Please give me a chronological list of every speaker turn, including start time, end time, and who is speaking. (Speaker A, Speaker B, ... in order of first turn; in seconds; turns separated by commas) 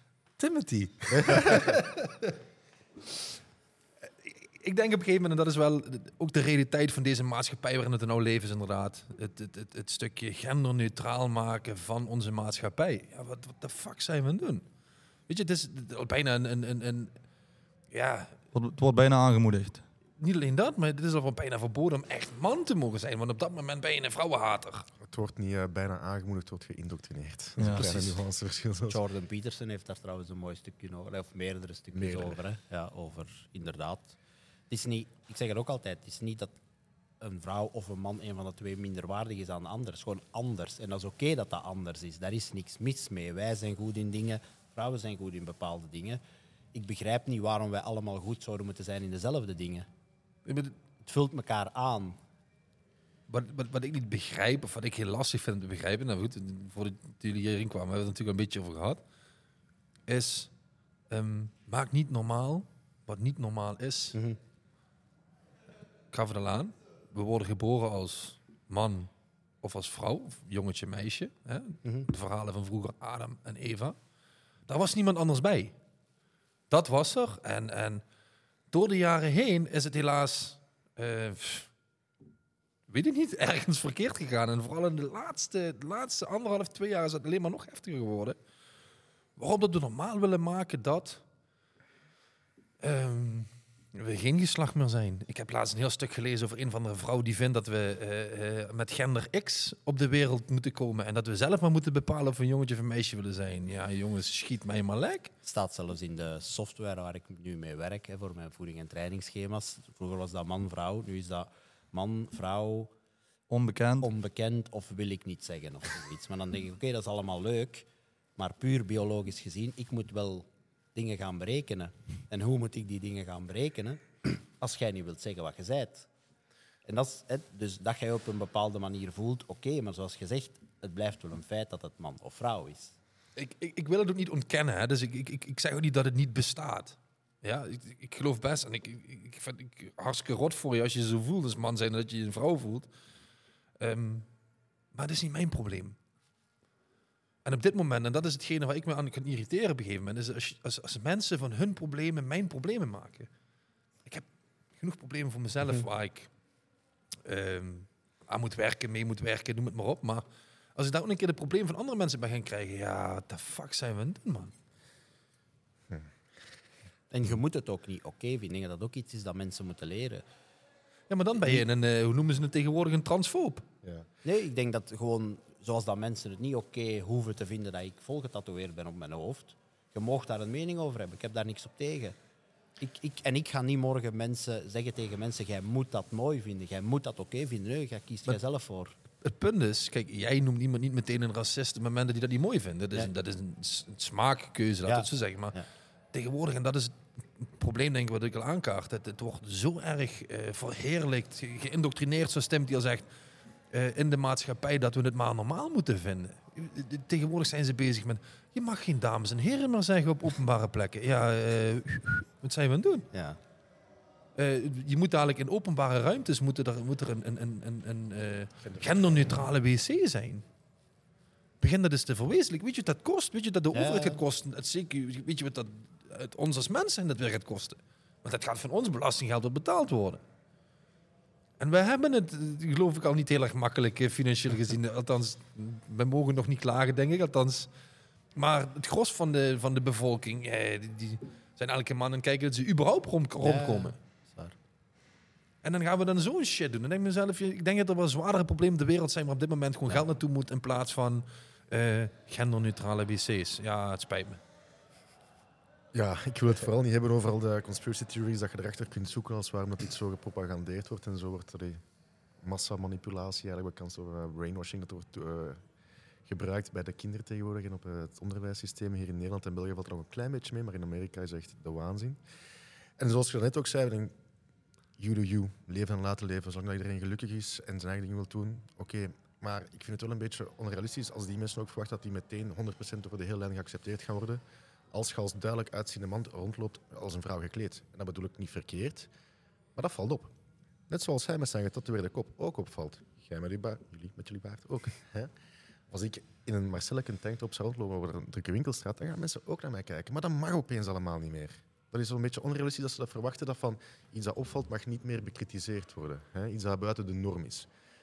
Speaker A: 0.4-2.3, Speaker A: 4.1-14.7, Speaker A: 15.3-17.1, Speaker A: 17.9-18.4, Speaker B: 18.5-19.8, Speaker A: 20.2-24.9, Speaker C: 25.0-29.0, Speaker B: 27.6-27.9, Speaker D: 28.9-34.2, Speaker C: 31.9-32.4, Speaker D: 34.7-36.6, Speaker D: 37.2-46.2, Speaker D: 46.7-49.9, Speaker A: 50.5-50.8, Speaker D: 51.0-52.2, Speaker A: 53.3-59.0, Speaker A: 60.1-60.5, Speaker A: 61.1-64.2, Speaker A: 66.1-69.1, Speaker A: 69.6-74.0, Speaker D: 71.8-72.1, Speaker A: 74.7-75.8, Speaker A: 76.7-78.0, Speaker A: 78.7-81.7, Speaker A: 82.9-88.4, Speaker A: 89.4-91.2, Speaker A: 92.8-105.3, Speaker D: 105.4-112.9, Speaker B: 113.5-114.1, Speaker D: 114.0-126.1, Speaker D: 126.9-133.0, Speaker A: 133.4-142.9, Speaker A: 143.8-144.3, Speaker A: 144.9-146.0, Speaker A: 147.4-153.3, Speaker A: 154.8-156.3, Speaker A: 157.2-164.5, Speaker D: 167.1-170.2, Speaker A: 171.1-173.7, Speaker D: 171.4-171.6, Speaker D: 174.2-182.2, Speaker D: 182.8-189.0, Speaker A: 189.2-195.6, Speaker D: 194.8-195.7, Speaker A: 196.1-203.1, Speaker A: 203.7-213.1, Speaker D: 213.1-213.4, Speaker A: 214.4-220.4, Speaker C: 218.6-219.2, Speaker A: 221.6-230.2, Speaker D: 223.7-224.2, Speaker A: 231.6-237.7, Speaker A: 238.3-244.0, Speaker D: 243.4-244.6, Speaker A: 245.6-254.4, Speaker C: 255.9-261.8, Speaker C: 262.4-265.6, Speaker C: 266.3-272.2, Speaker C: 273.0-274.1, Speaker C: 275.0-289.1, Speaker C: 289.8-290.3, Speaker C: 290.9-295.3, Speaker C: 295.9-307.7